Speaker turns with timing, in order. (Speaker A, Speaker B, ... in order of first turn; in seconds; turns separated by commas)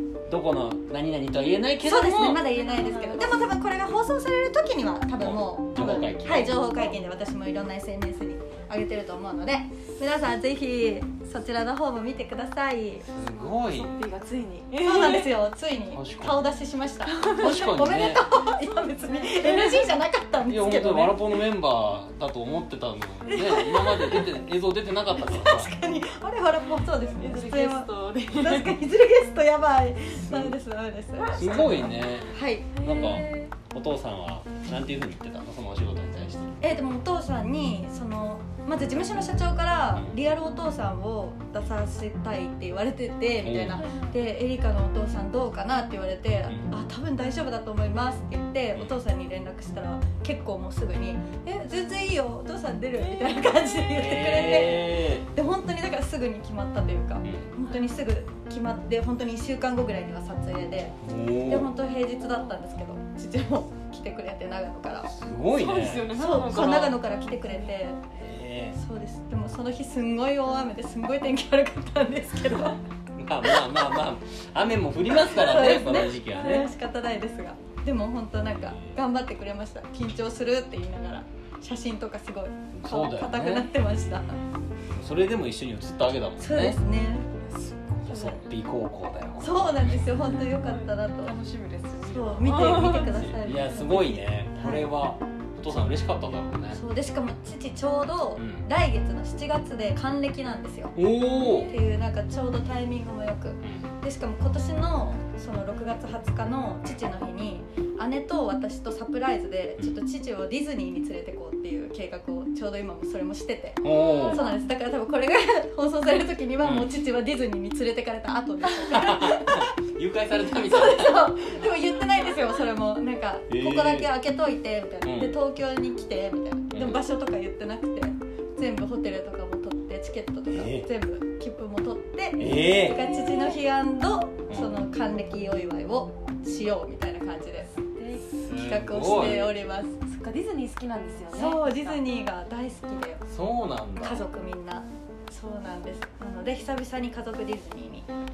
Speaker A: 0.3-2.4, Speaker B: 1.8-13.1, Speaker C: 2.4-3.5, Speaker A: 5.2-6.7, Speaker C: 5.8-6.2, Speaker A: 13.1-14.0, Speaker C: 13.4-15.4, Speaker B: 14.8-21.4, Speaker A: 15.9-16.5, Speaker C: 17.1-17.7, Speaker A: 17.4-18.2, Speaker C: 18.6-20.0, Speaker A: 20.5-25.7, Speaker B: 23.3-24.3, Speaker B: 25.2-32.8, Speaker C: 27.2-28.8, Speaker A: 30.3-30.6, Speaker A: 31.4-36.6, Speaker C: 32.8-33.5, Speaker B: 36.6-65.1, Speaker A: 43.4-43.9, Speaker C: 43.8-44.2, Speaker A: 46.5-46.7, Speaker A: 54.0-55.2, Speaker A: 57.2-57.5, Speaker C: 57.6-58.0, Speaker A: 61.0-61.7, Speaker A: 65.1-66.9, Speaker C: 65.5-67.8, Speaker B: 66.1-68.0, Speaker A: 68.2-68.8, Speaker B: 68.7-72.8, Speaker A: 73.2-76.7, Speaker B: 75.2-84.4, Speaker C: 76.2-76.7, Speaker A: 82.7-83.7, Speaker A: 84.9-86.8, Speaker B: 86.4-87.3, Speaker C: 87.4-88.3, Speaker A: 88.0-90.1, Speaker B: 88.1-88.4, Speaker B: 89.4-91.3, Speaker C: 90.4-93.3, Speaker B: 92.0-94.9, Speaker A: 93.1-96.8, Speaker B: 96.7-101.0, Speaker A: 98.4-98.7, Speaker A: 101.0-101.7, Speaker C: 101.3-101.8, Speaker B: 101.6-119.8, Speaker A: 103.6-103.9, Speaker A: 113.8-114.5, Speaker C: 113.9-114.5, Speaker A: 116.6-116.9, Speaker A: 118.9-121.6, Speaker B: 120.6-137.8, Speaker A: 123.5-124.1, Speaker A: 125.0-125.3, Speaker A: 126.7-127.0, Speaker A: 130.5-130.9, Speaker A: 132.4-133.0, Speaker C: 132.8-133.6, Speaker A: 134.5-134.8, Speaker C: 137.9-138.3, Speaker A: 138.4-139.6, Speaker B: 138.5-140.0, Speaker C: 140.0-142.0, Speaker B: 141.3-143.2, Speaker A: 143.3-144.2, Speaker B: 144.0-148.1